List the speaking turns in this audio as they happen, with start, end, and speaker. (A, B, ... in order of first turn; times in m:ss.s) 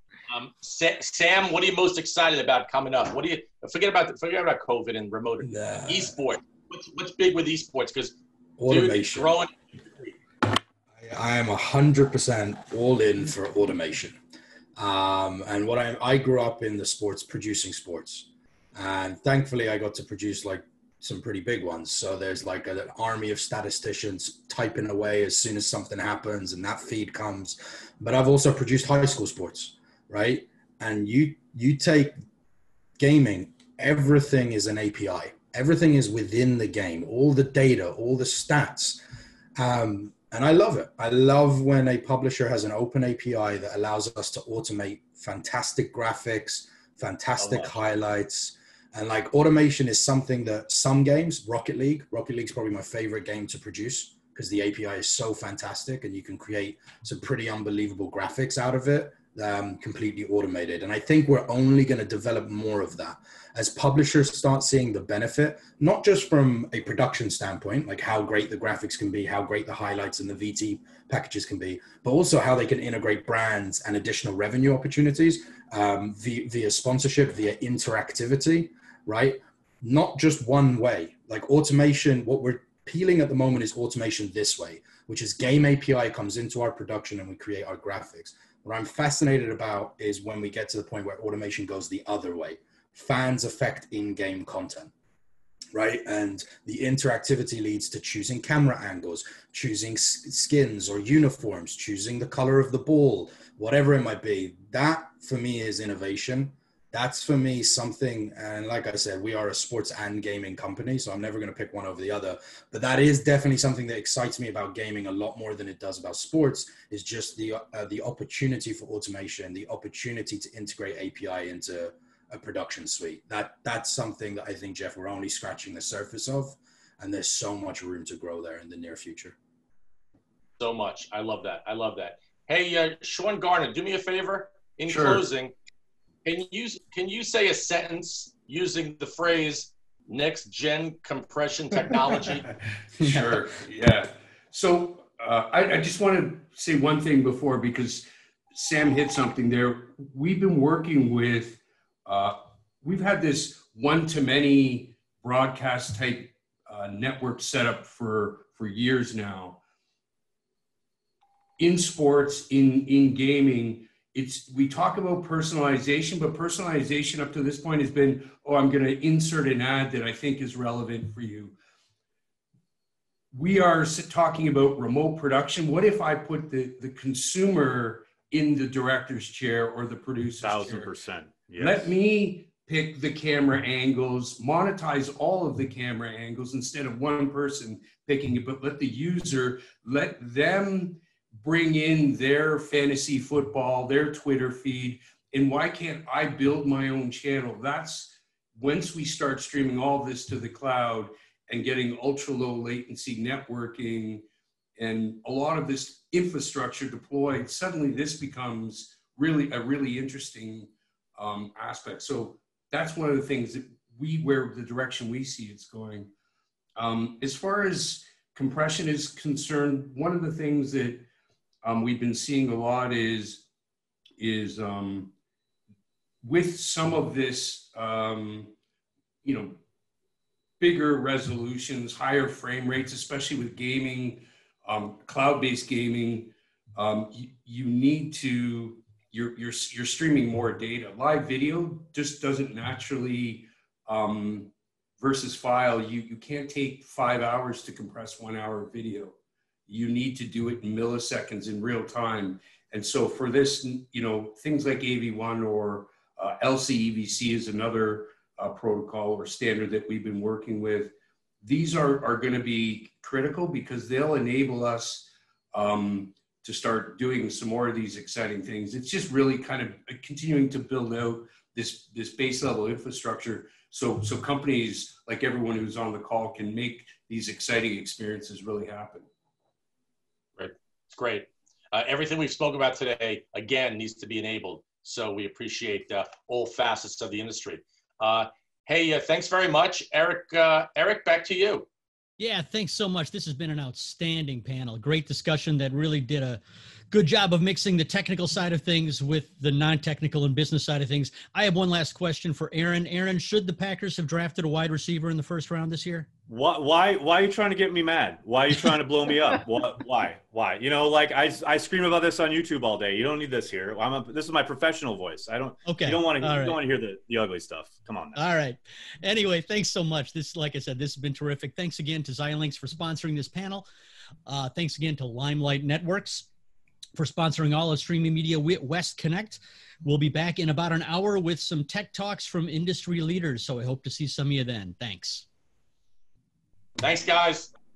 0:00.3-0:08.1 A
0:05.4-0:06.2 B
0:08.6-0:09.4 B
0:08.7-0:09.5 A
0:11.0-0:14.2 B
0:14.8-0:32.2 B
0:33.0-0:39.0 B
0:39.6-1:34.9 B
1:35.7-2:09.4 B
2:10.6-2:15.5 A
2:14.9-2:15.2 C
2:16.2-2:22.4 A
2:23.0-2:39.6 C
2:41.6-2:51.6 C
2:53.3-3:00.9 C
3:00.4-3:01.9 D
3:01.6-3:24.2 C
3:24.8-3:36.1 C
3:36.8-3:41.0 C
3:41.6-3:43.4 C
3:44.2-3:45.1 C
3:46.2-3:48.5 C
3:49.2-3:49.6 C
3:50.6-4:09.2 C
4:09.7-4:39.1 C
4:40.4-4:51.7 A
4:52.2-5:06.1 E
5:06.3-5:18.2 D
5:15.6-5:16.6 E
5:18.1-5:23.7 E
5:24.2-5:26.3 E
5:27.0-5:35.2 E
5:36.8-5:37.5 A